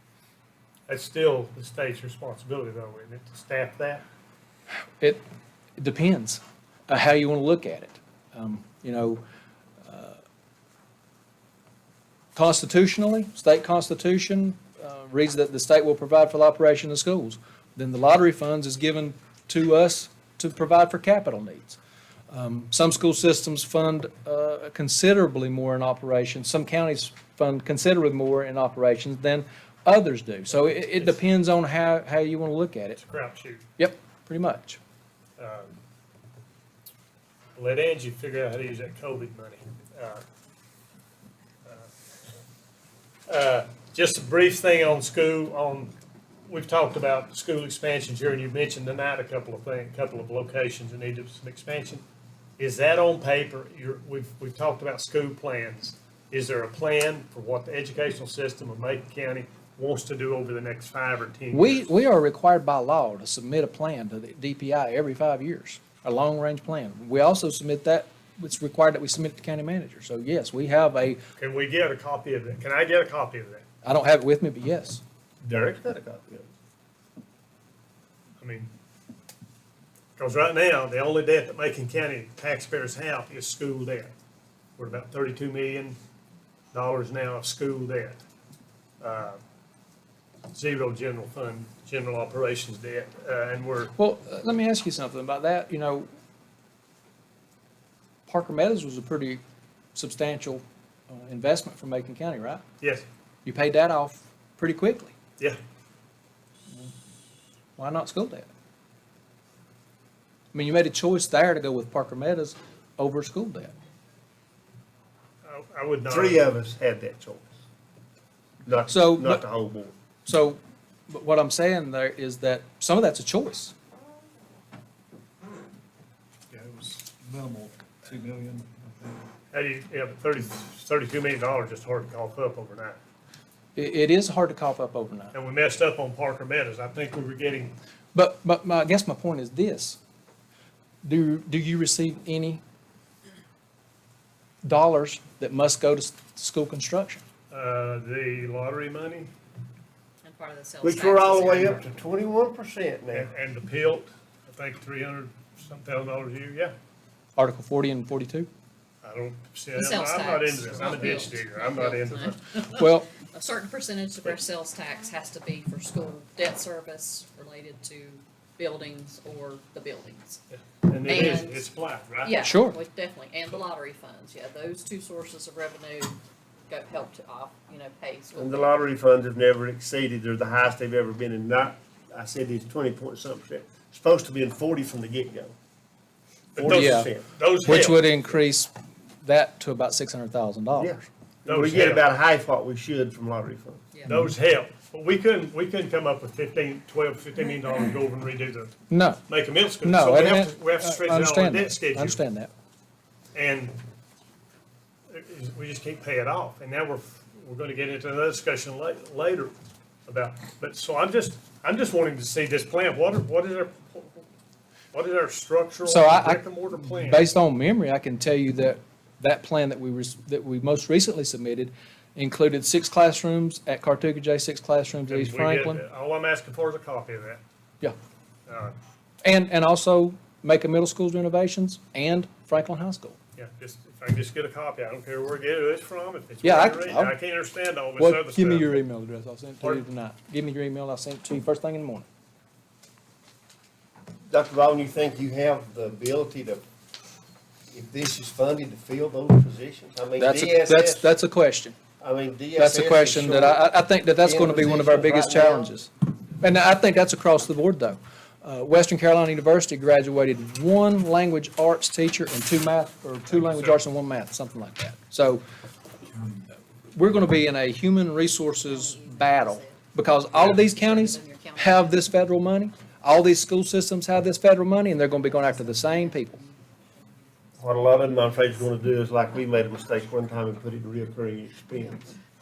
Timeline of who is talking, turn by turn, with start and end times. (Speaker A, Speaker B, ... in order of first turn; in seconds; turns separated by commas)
Speaker A: 0.9-4.0, Speaker B: 5.8-9.2, Speaker B: 9.8-10.2, Speaker B: 12.3-21.8, Speaker B: 22.3-33.0, Speaker A: 33.0-33.6, Speaker B: 33.8-34.8, Speaker A: 35.4-35.7, Speaker A: 37.6-40.2, Speaker A: 43.3-45.9, Speaker A: 46.5-52.0, Speaker A: 52.6-61.9, Speaker B: 61.5-71.2, Speaker A: 71.4-73.7, Speaker B: 73.8-75.0, Speaker C: 75.5-76.5, Speaker A: 78.4-78.7, Speaker A: 80.2-84.1, Speaker A: 84.8-86.0, Speaker A: 86.7-88.2, Speaker A: 89.0-89.4, Speaker A: 90.5-93.9, Speaker B: 94.0-96.1, Speaker B: 98.3-99.4, Speaker B: 100.0-102.6, Speaker B: 103.5-105.1, Speaker B: 107.8-108.5, Speaker B: 110.5-113.7, Speaker A: 115.5-116.5, Speaker C: 116.1-117.5, Speaker C: 118.6-119.9, Speaker B: 118.9-119.4, Speaker B: 120.3-123.7, Speaker D: 126.5-129.2, Speaker A: 129.5-133.0, Speaker B: 133.8-135.3, Speaker A: 135.3-137.7, Speaker B: 138.1-140.0, Speaker B: 141.0-142.6, Speaker B: 144.6-147.2, Speaker A: 147.5-149.3, Speaker E: 150.2-151.9, Speaker C: 150.8-153.3, Speaker A: 153.1-156.7, Speaker B: 157.4-158.5, Speaker A: 159.0-162.4, Speaker E: 159.8-170.4, Speaker B: 162.7-163.1, Speaker A: 170.5-172.4, Speaker E: 171.0-171.7, Speaker E: 172.2-176.2, Speaker B: 172.4-172.8, Speaker E: 176.7-178.8, Speaker C: 178.3-185.5, Speaker C: 186.6-187.3, Speaker A: 186.6-188.0, Speaker B: 186.7-187.1, Speaker B: 187.6-188.7, Speaker B: 189.2-191.0, Speaker C: 190.8-193.8, Speaker A: 191.4-192.1, Speaker E: 193.9-194.2, Speaker A: 194.1-198.8, Speaker B: 198.9-199.2, Speaker A: 199.3-202.2, Speaker B: 199.8-202.5, Speaker A: 203.3-203.8, Speaker A: 205.1-209.5, Speaker A: 210.1-214.2, Speaker A: 214.9-217.3, Speaker B: 215.8-225.8, Speaker A: 225.1-227.4, Speaker A: 228.5-228.8, Speaker B: 229.2-233.2, Speaker A: 233.4-238.8, Speaker B: 236.4-237.2, Speaker B: 238.0-242.1, Speaker A: 239.6-239.9, Speaker C: 244.3-246.6, Speaker C: 247.7-251.1, Speaker B: 250.2-251.8, Speaker C: 252.0-253.6, Speaker B: 252.6-265.4, Speaker C: 254.2-255.7, Speaker A: 263.4-263.8, Speaker B: 266.9-276.4, Speaker E: 268.6-272.1, Speaker E: 275.0-278.6, Speaker C: 277.6-282.0, Speaker E: 281.8-282.1